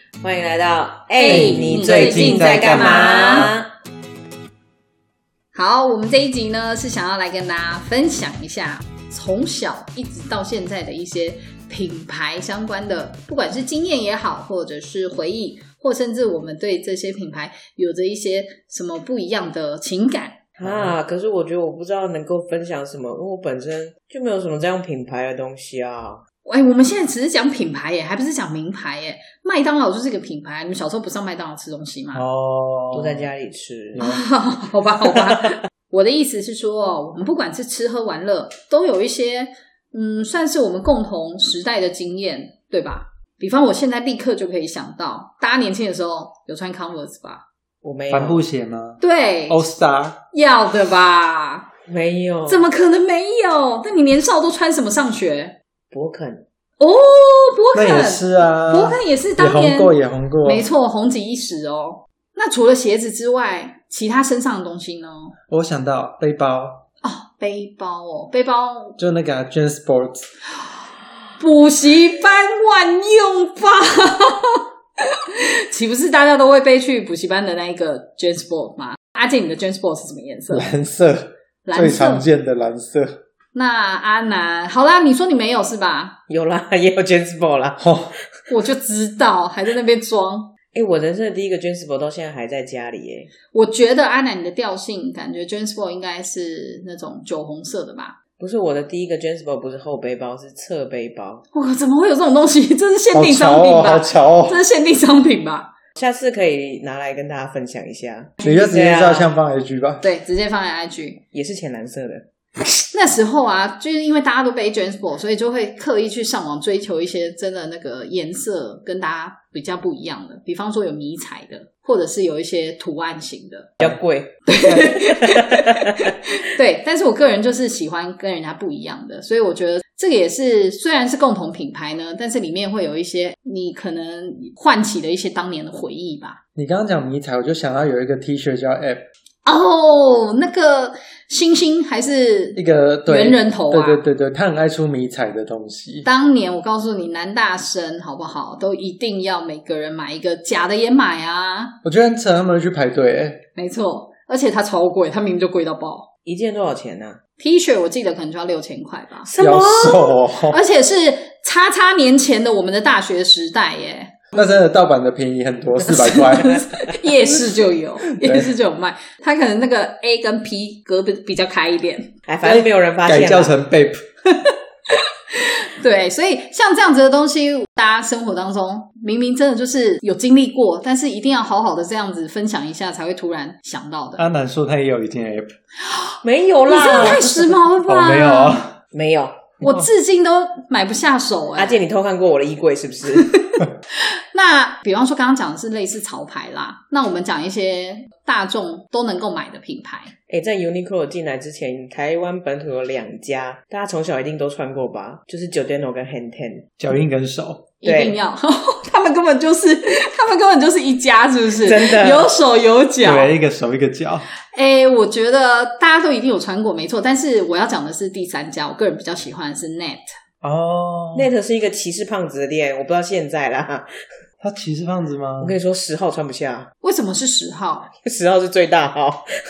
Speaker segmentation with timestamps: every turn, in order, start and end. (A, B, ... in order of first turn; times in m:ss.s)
0:00.2-0:03.7 A
0:01.1-0:03.5 B
0:01.2-0:03.5 C
0:05.5-0:20.4 B
0:20.6-0:26.2 A
0:20.6-0:20.9 C
0:26.4-0:32.2 B
0:32.1-0:33.3 C
0:32.9-0:34.1 A
0:34.0-0:34.2 C
0:34.0-0:47.4 B
0:47.8-0:48.4 A
0:48.1-0:50.2 C
0:49.0-0:49.6 B
0:50.3-0:51.7 B
0:51.9-0:52.7 A
0:52.5-0:55.5 B
0:55.9-0:56.4 A
0:56.8-1:05.3 B
0:57.7-1:00.7 C
1:05.5-1:06.8 C
1:07.0-1:09.0 B
1:09.0-1:10.2 C
1:11.4-1:14.6 B
1:15.2-1:20.7 B
1:20.5-1:23.2 C
1:21.6-1:22.2 B
1:23.5-1:26.2 B
1:26.3-1:27.8 A
1:27.8-1:28.1 C
1:28.5-1:30.5 B
1:30.7-1:33.3 A
1:33.5-1:38.2 B
1:38.4-1:41.4 A
1:41.5-1:45.7 B
1:43.1-1:44.6 C
1:46.0-1:49.3 A
1:48.4-1:50.0 C
1:50.0-1:51.2 B
1:51.3-1:52.3 A
1:52.9-2:03.7 B
2:03.8-2:04.4 A
2:04.5-2:16.4 B
2:04.6-2:04.9 C
2:05.2-2:06.0 A
2:16.6-2:19.0 C
2:19.4-2:24.0 B
2:22.6-2:26.1 C
2:26.0-2:31.8 B
2:31.8-2:33.4 C
2:33.6-2:36.1 B
2:36.2-2:37.2 A
2:37.4-2:39.3 B
2:39.2-2:40.2 A
2:39.4-2:40.6 C
2:40.5-2:44.2 B
2:44.3-2:46.6 C
2:45.9-2:52.1 B
2:48.2-2:48.5 C
2:52.2-2:53.6 A
2:52.4-2:54.0 C
2:54.4-3:04.2 B
3:04.2-3:05.5 C
3:06.2-3:07.5 A
3:06.7-3:08.6 B
3:07.9-3:08.8 C
3:08.9-3:09.4 A
3:09.6-3:11.8 B
3:11.6-3:13.3 A
3:13.2-3:20.1 B
3:20.3-3:26.7 A
3:26.8-3:27.7 C
3:27.8-3:33.3 B
3:27.8-3:28.2 A
3:31.6-3:32.3 A
3:33.0-3:34.2 C
3:34.5-3:40.1 B
3:40.4-3:41.3 C
3:41.1-3:43.9 A
3:44.4-3:45.5 C
3:45.4-3:46.7 A
3:46.8-3:47.9 B
3:48.0-3:49.3 A